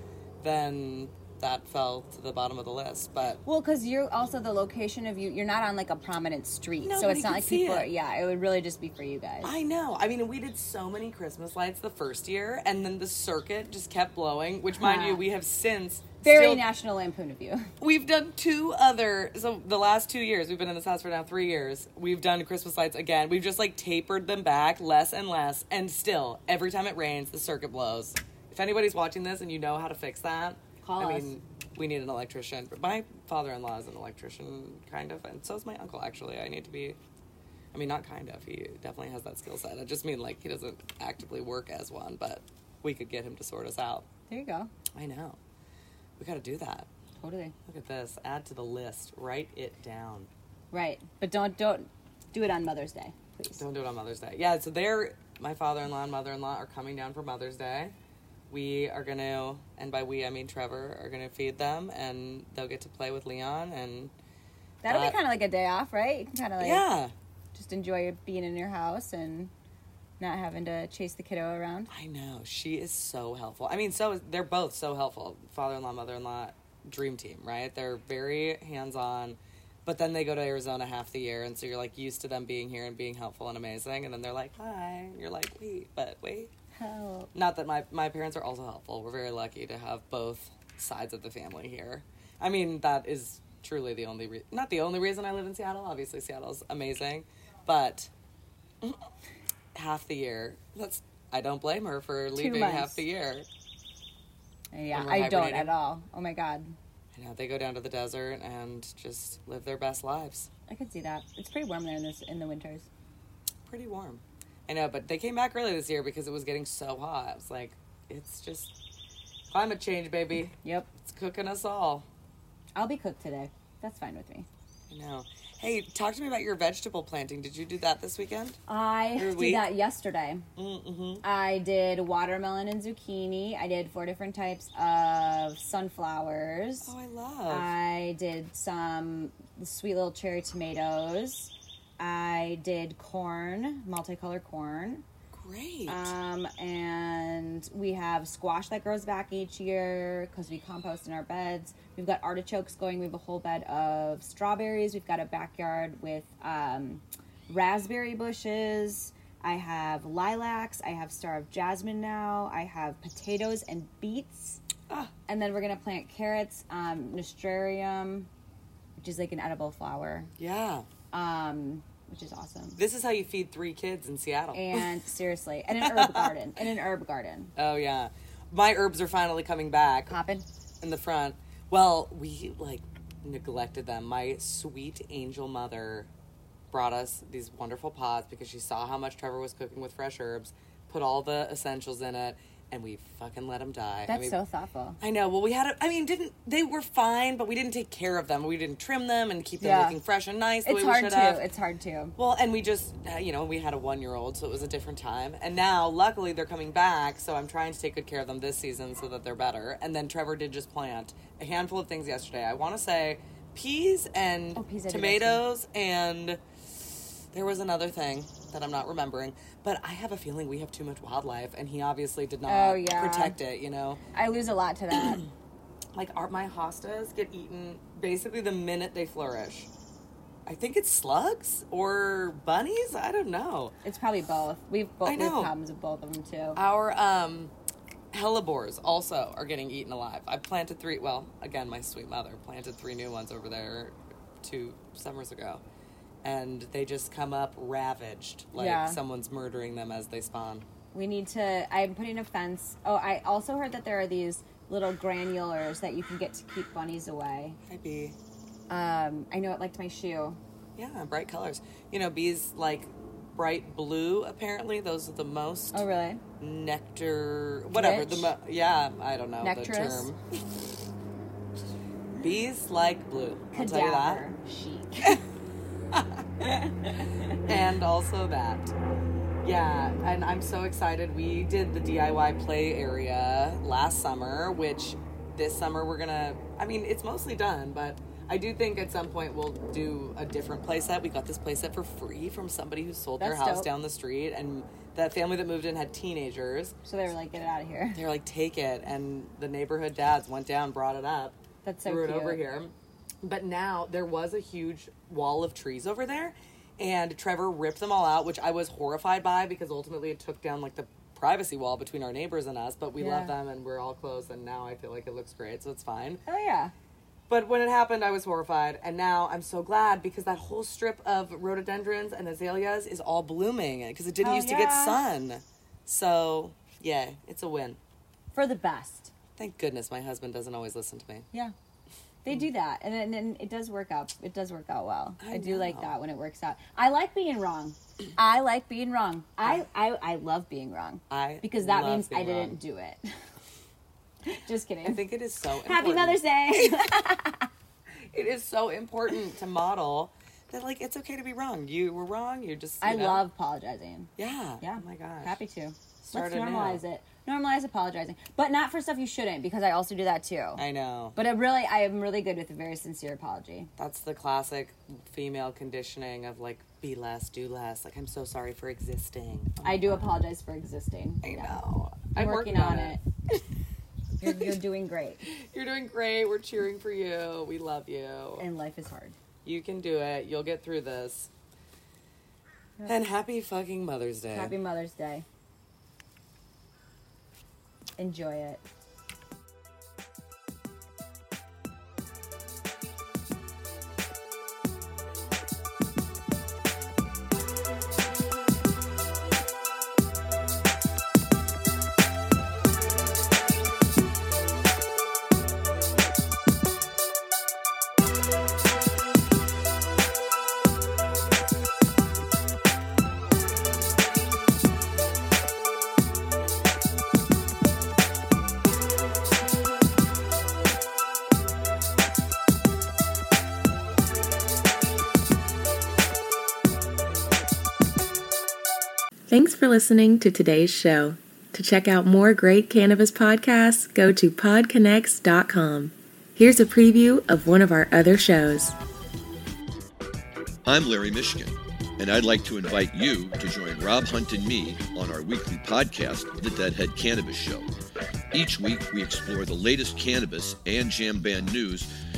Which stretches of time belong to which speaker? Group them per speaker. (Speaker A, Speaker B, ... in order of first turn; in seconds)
Speaker A: 0.4-3.4, 6.8-7.9, 9.4-16.6, 17.8-37.0, 37.7-44.1, 45.0-45.4, 46.2-46.9, 47.7-50.3, 53.6-57.9, 58.5-64.1, 64.9-65.2, 66.6-67.1, 71.9-86.5, 87.3-98.1, 99.7-103.5, 104.9-105.7, 107.1-110.5, 113.7-118.8, 119.5-122.1, 124.9-128.6, 129.2-129.7, 130.6-131.2, 136.8-137.7, 145.3-146.2, 170.4-170.9, 172.8-174.9, 175.7-176.4, 177.6-180.2, 180.8-186.1, 186.7-194.4, 195.0-201.4, 202.2-216.4, 217.3-224.0, 225.9-229.7, 230.5-233.8, 235.0-235.5, 236.6-237.5, 238.1-245.6, 246.2-250.7, 257.6-258.2, 260.8-265.8, 266.4-270.4, 272.2-274.2, 275.9-276.5, 277.3-278.7, 279.4-296.8, 297.9-316.2, 317.3-327.8, 329.4-331.3, 335.2-335.9, 341.1-342.6, 344.9-346.8, 348.0-353.2, 354.2-355.4, 356.1-356.8, 360.6-361.2, 363.8-370.2, 371.2-373.0, 374.2-374.6, 375.2-378.4, 379.4-381.3, 382.9-384.6
Speaker B: 3.5-9.5, 14.8-15.2, 16.2-17.7, 30.8-31.3, 44.3-44.7, 47.2-47.5, 50.7-53.6, 64.8-66.8, 67.5-69.5, 70.2-71.9, 86.8-87.3, 102.4-103.0, 104.7-106.8, 110.7-112.9, 120.6-120.9, 122.8-124.5, 128.7-130.5, 131.2-136.9, 137.5-145.0, 145.9-164.6, 165.3-168.3, 169.0-170.3, 171.1-172.8, 174.5-177.5, 180.1-180.5, 194.1-195.0, 199.6-200.0, 200.7-202.2, 214.6-215.4, 222.5-223.4, 224.1-225.3, 233.8-236.6, 248.6-249.0, 250.9-257.6, 258.7-260.4, 265.7-266.2, 267.7-268.3, 269.4-270.1, 273.5-275.2, 276.4-277.4, 293.2-293.7, 296.9-298.0, 301.6-302.4, 313.0-313.3, 316.3-316.7, 324.2-325.0, 328.3-329.1, 332.2-343.1, 344.2-345.0, 345.6-347.5, 352.8-360.6, 361.1-363.7, 369.6-371.6, 372.1-373.0, 374.2-375.2, 378.4-379.1, 384.3-385.2, 388.0-388.6
Speaker C: 429.3-438.8
Speaker D: 440.7-447.7, 448.3-451.9